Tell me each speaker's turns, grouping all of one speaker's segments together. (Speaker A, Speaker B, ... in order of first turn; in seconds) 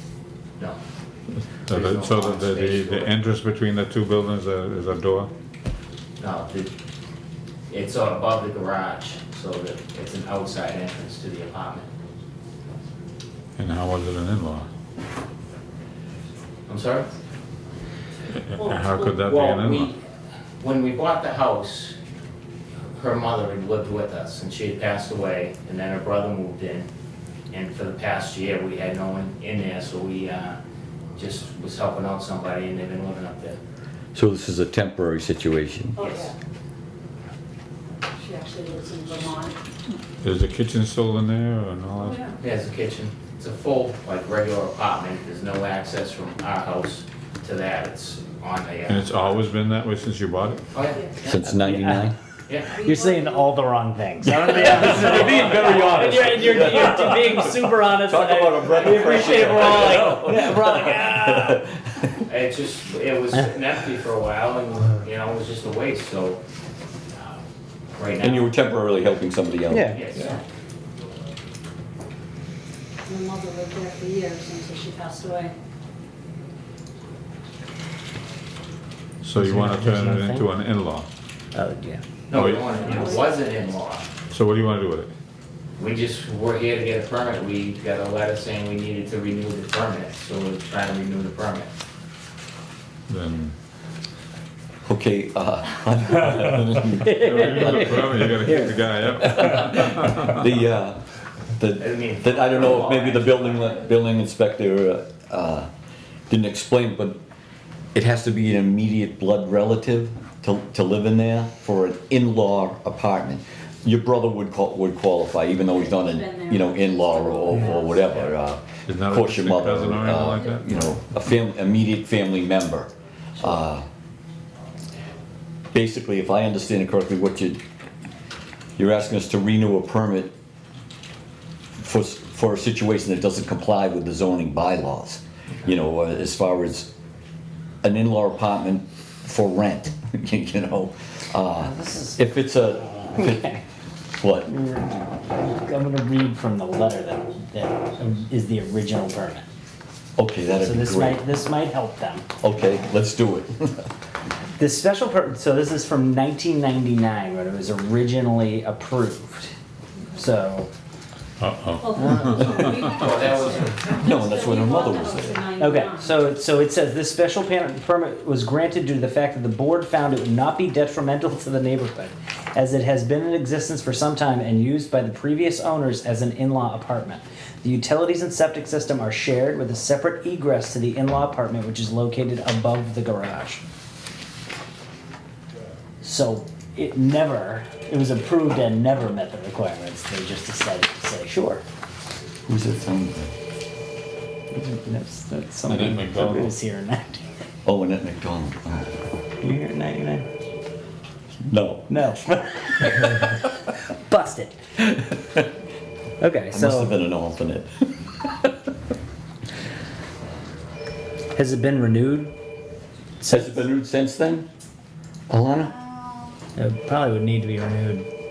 Speaker A: 1.4-5.3, 13.6-14.7, 18.3-19.9, 40.2-42.3, 48.9-50.7, 79.2-81.1, 82.3-82.9, 84.3-85.1, 93.1-93.5, 97.1-100.4, 118.9-120.8, 161.4-163.1, 195.7-196.5
Speaker B: 1.7-3.1, 6.2-6.7, 7.7-11.9, 16.7-17.1, 18.7-20.0, 20.6-21.9, 22.9-26.9, 27.5-30.6, 31.2-33.6, 36.0-36.3, 42.4-49.4, 50.7-51.3, 52.5-52.8, 62.3-66.4, 68.0-68.5, 69.9-70.4, 82.3-84.1, 85.8-91.7, 101.8-103.9, 162.8-164.1
Speaker C: 34.1-36.0, 51.2-52.2, 54.2-62.1, 68.2-70.2, 94.9-98.5, 100.2-101.0, 101.6-105.7, 106.3-107.2, 108.0-123.9, 125.7-127.6, 128.8-130.3, 131.8-136.9, 137.8-143.5, 144.2-144.5, 150.2-151.3, 152.4-153.9, 163.9-165.4, 192.5-193.3, 197.7-199.0, 201.5-201.9, 205.0-205.5, 206.5-208.4, 213.3-214.5, 215.3-215.8
Speaker D: 36.0-36.3, 38.2-39.6, 42.0-42.4, 50.9-51.2, 52.7-53.5, 55.3-55.7, 73.1-75.5, 82.7-83.3, 115.5-118.3, 161.8-166.3
Speaker E: 51.5-52.1, 52.8-61.6, 69.7-70.0, 79.4-80.5, 81.5-82.0, 97.0-99.4, 141.6-142.2, 143.1-143.6, 144.5-149.5, 150.6-152.3, 154.6-159.5, 160.2-160.7, 165.6-183.6, 186.0-191.6, 194.5-197.2, 199.4-200.3, 201.9-204.6, 206.2-207.0, 211.3-212.3, 213.2-213.7, 216.6-218.1